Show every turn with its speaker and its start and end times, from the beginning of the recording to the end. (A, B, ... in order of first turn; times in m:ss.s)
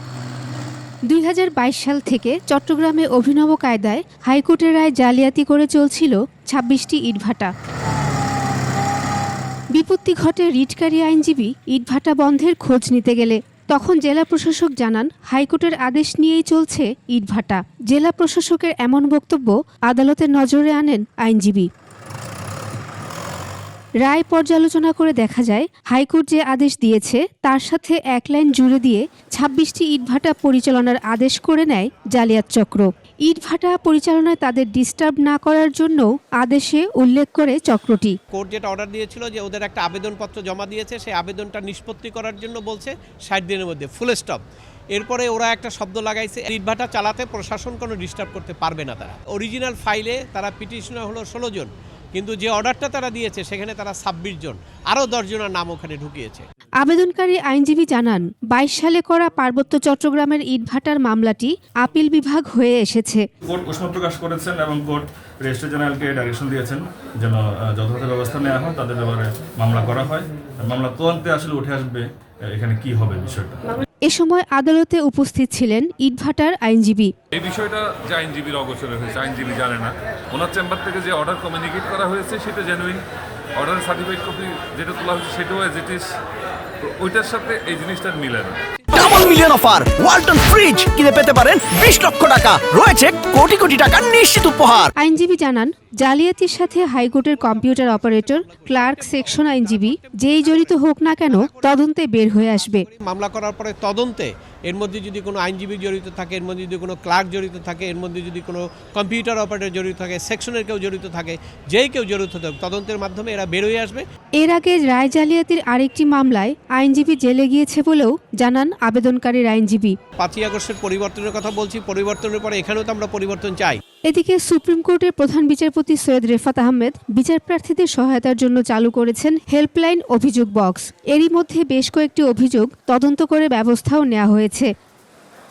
0:01.1-0:07.5 A
0:09.7-0:21.7 A
0:24.0-0:38.2 A
0:38.3-0:44.4 B
0:44.9-0:56.4 B
0:56.8-1:03.2 A
1:03.5-1:13.6 C
1:14.1-1:17.1 A
1:17.3-1:23.0 D
1:23.6-1:26.0 D
1:26.8-1:28.6 D
1:28.8-1:29.8 B
1:28.9-1:34.9 E
1:35.0-1:42.8 A
1:37.1-1:54.0 B
1:54.4-2:00.0 A
2:00.2-2:03.8 B
2:04.1-2:14.7 A